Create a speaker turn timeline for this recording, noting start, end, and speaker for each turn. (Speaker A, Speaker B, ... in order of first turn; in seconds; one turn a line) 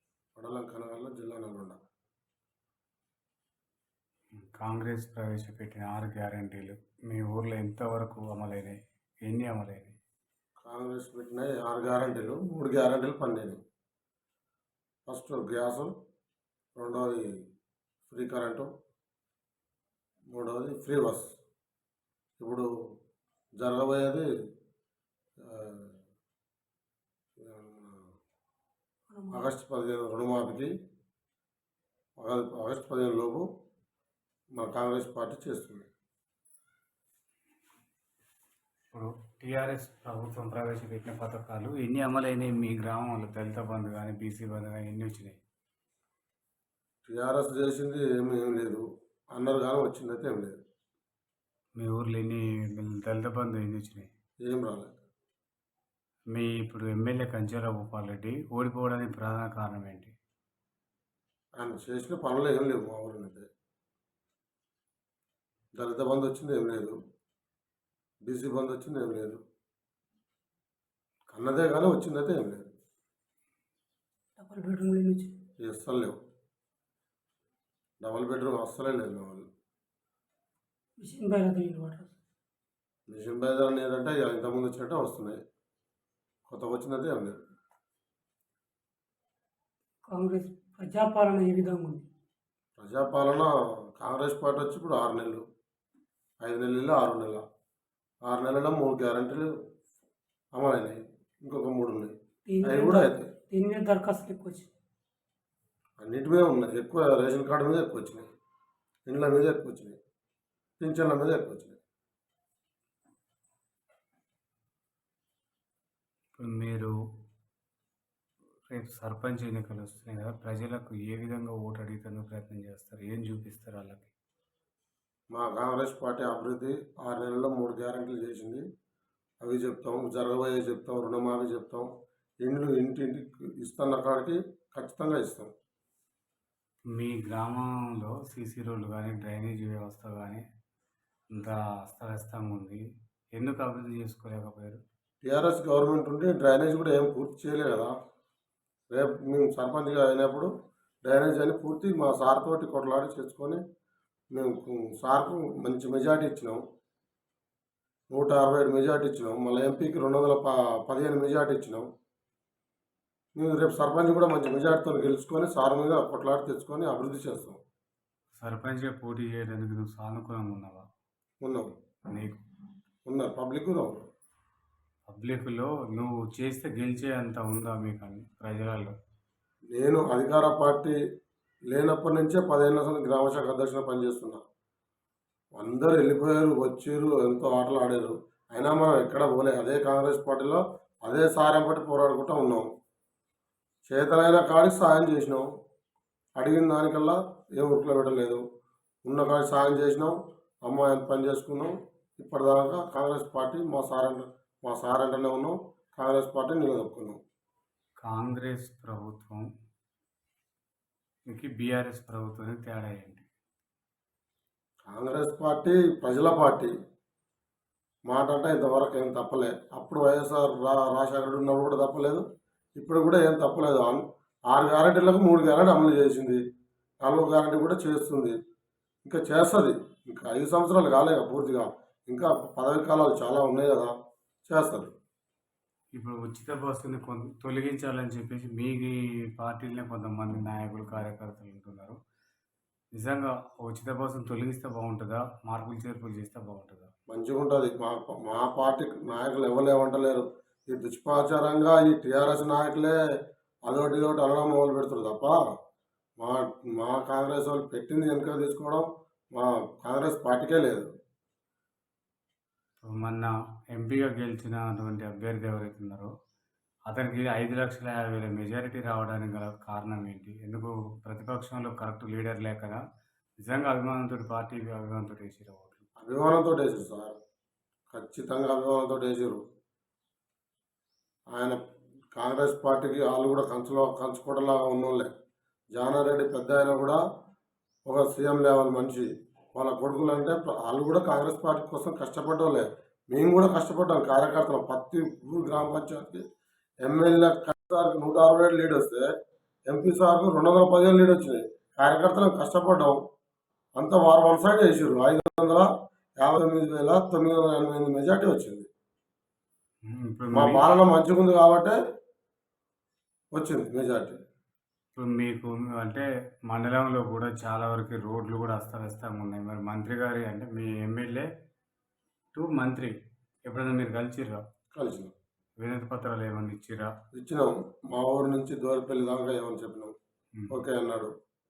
Speaker A: 0.4-1.8
Speaker B: 4.5-10.0
Speaker A: 10.6-13.6
Speaker A: 15.1-15.9
Speaker A: 16.8-17.3
Speaker A: 18.1-18.7
Speaker A: 20.3-21.3
Speaker A: 22.4-22.7
Speaker A: 23.6-24.3
Speaker A: 25.4-26.0
Speaker A: 27.4-28.1
Speaker C: 29.1-29.4
Speaker A: 29.3-30.7
Speaker A: 32.2-33.5
Speaker A: 34.6-35.9
Speaker B: 38.9-45.4
Speaker A: 47.1-50.6
Speaker B: 51.8-54.1
Speaker A: 54.5-54.9
Speaker B: 56.3-60.1
Speaker A: 61.6-63.5
Speaker A: 65.8-67.0
Speaker A: 68.3-69.4
Speaker A: 71.3-72.7
Speaker C: 74.4-75.4
Speaker A: 75.6-76.2
Speaker A: 78.0-79.5
Speaker C: 81.0-82.1
Speaker A: 83.1-85.4
Speaker A: 86.5-87.4
Speaker C: 90.1-92.1
Speaker A: 92.8-95.4
Speaker A: 96.4-97.4
Speaker A: 98.3-99.5
Speaker A: 100.5-102.1
Speaker C: 102.5-104.7
Speaker A: 102.6-103.3
Speaker A: 106.0-108.3
Speaker A: 109.1-110.0
Speaker A: 110.8-111.8
Speaker B: 116.4-116.9
Speaker B: 118.7-124.1
Speaker A: 125.3-128.6
Speaker A: 129.4-131.9
Speaker A: 132.4-135.5
Speaker B: 136.9-140.4
Speaker B: 141.3-142.8
Speaker B: 143.4-144.8
Speaker A: 145.2-147.9
Speaker A: 148.9-150.5
Speaker A: 151.1-153.6
Speaker A: 154.3-156.6
Speaker A: 158.1-161.9
Speaker A: 163.4-167.6
Speaker B: 168.4-170.8
Speaker A: 171.4-171.7
Speaker B: 172.1-172.4
Speaker A: 173.1-174.0
Speaker B: 175.1-178.9
Speaker A: 179.7-181.0
Speaker A: 181.7-184.4
Speaker A: 185.6-192.7
Speaker A: 193.9-195.5
Speaker A: 196.4-198.4
Speaker A: 199.1-207.2
Speaker B: 208.0-209.4
Speaker B: 211.3-213.3
Speaker A: 214.9-216.7
Speaker A: 218.1-222.2
Speaker A: 222.8-226.4
Speaker A: 227.0-228.3
Speaker A: 229.0-233.9
Speaker A: 234.5-234.9
Speaker B: 236.0-242.0
Speaker B: 243.0-246.9
Speaker A: 247.1-253.0
Speaker A: 253.7-255.4
Speaker A: 256.2-260.9
Speaker B: 262.8-266.1
Speaker B: 266.9-272.8
Speaker B: 273.4-275.9
Speaker A: 276.0-277.2
Speaker A: 277.9-279.4
Speaker A: 282.2-285.1
Speaker A: 285.8-287.0
Speaker A: 287.9-296.2
Speaker A: 296.8-299.1
Speaker A: 299.7-303.0
Speaker A: 303.8-305.7
Speaker A: 306.2-308.7
Speaker B: 309.9-310.6
Speaker A: 310.3-311.8
Speaker A: 313.3-314.2
Speaker B: 315.0-321.3
Speaker B: 322.4-322.9
Speaker B: 323.5-324.4
Speaker A: 324.8-325.1
Speaker B: 325.6-326.9
Speaker A: 327.1-329.9
Speaker A: 330.5-331.1